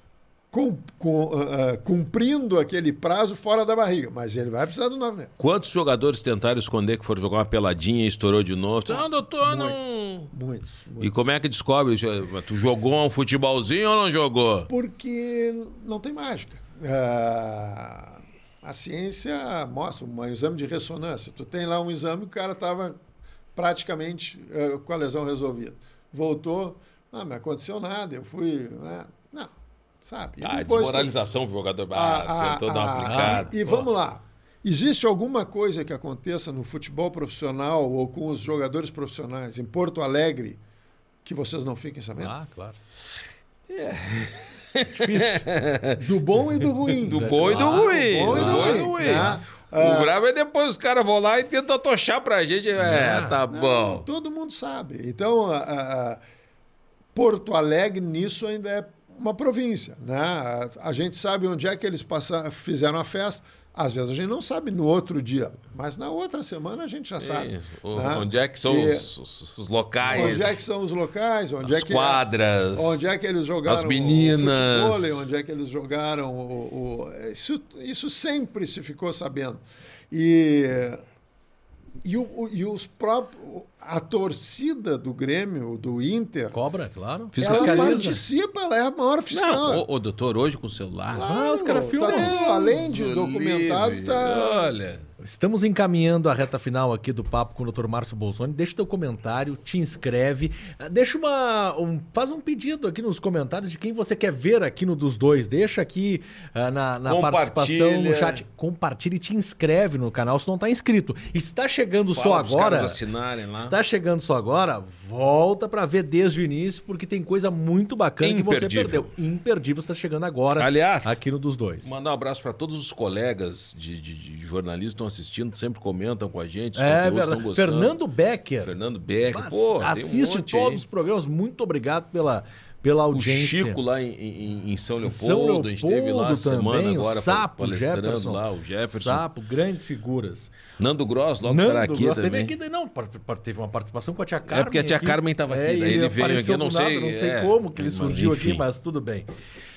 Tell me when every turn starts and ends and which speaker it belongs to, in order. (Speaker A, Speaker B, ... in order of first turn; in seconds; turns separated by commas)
Speaker A: 0.5-5.3, Speaker B: 5.4-10.3, Speaker A: 8.9-11.2, Speaker B: 11.0-14.7, Speaker A: 14.7-23.0, Speaker A: 23.5-31.1, Speaker B: 30.4-33.9, Speaker A: 31.9-40.6, Speaker C: 33.0-33.5, Speaker A: 41.2-42.3, Speaker C: 42.2-42.8, Speaker B: 43.7-46.0, Speaker C: 44.9-45.5, Speaker A: 46.0-50.1, Speaker C: 46.9-49.4, Speaker B: 46.9-54.0, Speaker C: 52.8-53.4, Speaker A: 53.5-56.2, Speaker A: 57.1-69.1, Speaker B: 67.2-70.6, Speaker A: 70.1-81.0, Speaker B: 71.6-73.0, Speaker B: 73.6-75.3, Speaker A: 82.0-86.5, Speaker C: 86.5-88.2, Speaker B: 87.3-88.2, Speaker A: 87.4-89.8, Speaker B: 89.3-91.4, Speaker A: 91.1-94.7, Speaker C: 91.2-92.4, Speaker B: 92.0-95.0, Speaker C: 95.2-113.0, Speaker B: 107.0-108.4, Speaker B: 112.1-113.7, Speaker C: 113.6-121.9, Speaker B: 118.2-119.1, Speaker B: 120.6-121.2, Speaker B: 121.8-128.0, Speaker C: 126.8-128.7, Speaker B: 128.6-130.8, Speaker C: 129.2-133.8, Speaker B: 133.1-139.2, Speaker C: 135.1-140.5, Speaker B: 140.8-142.5, Speaker C: 141.4-149.3, Speaker B: 144.5-148.6